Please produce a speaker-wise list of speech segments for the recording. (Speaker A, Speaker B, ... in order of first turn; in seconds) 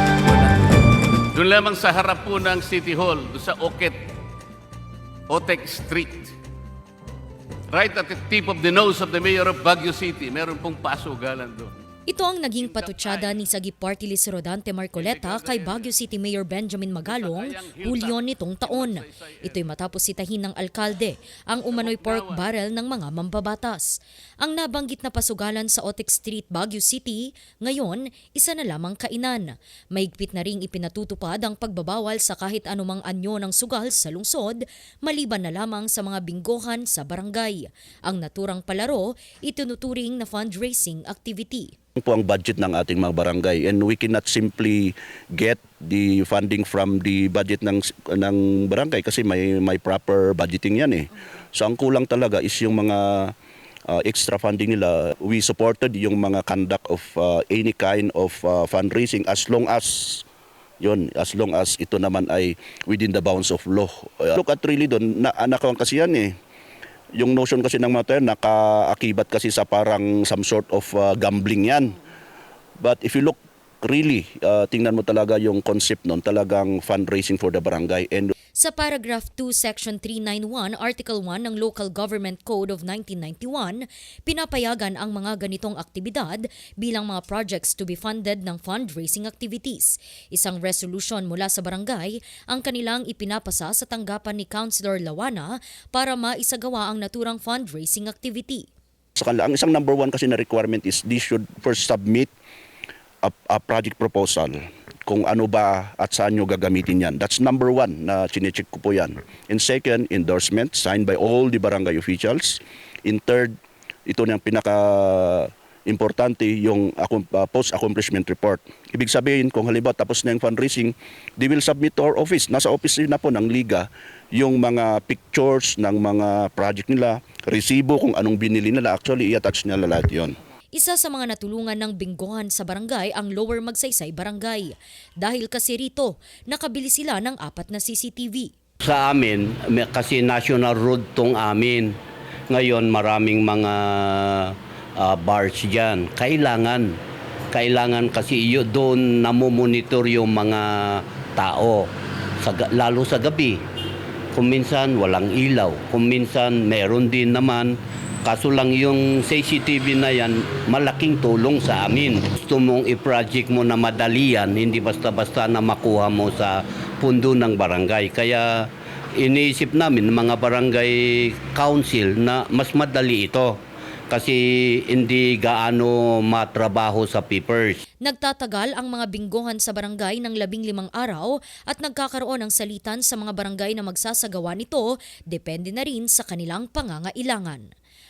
Speaker A: 1.3-4.0, 5.3-6.3, 7.7-11.8, 12.6-13.4, 14.9-15.9, 17.0-19.4, 21.7-22.4
Speaker B: 12.1-41.7, 78.5-98.7, 130.8-138.5, 178.0-187.7
Speaker C: 42.0-53.3, 53.9-60.2, 60.8-66.3, 67.1-72.0, 72.8-78.3, 99.2-102.3, 103.2-113.5, 114.0-130.3
Speaker D: 138.8-142.0, 142.5-147.0, 147.5-153.6, 154.3-173.6, 174.1-177.8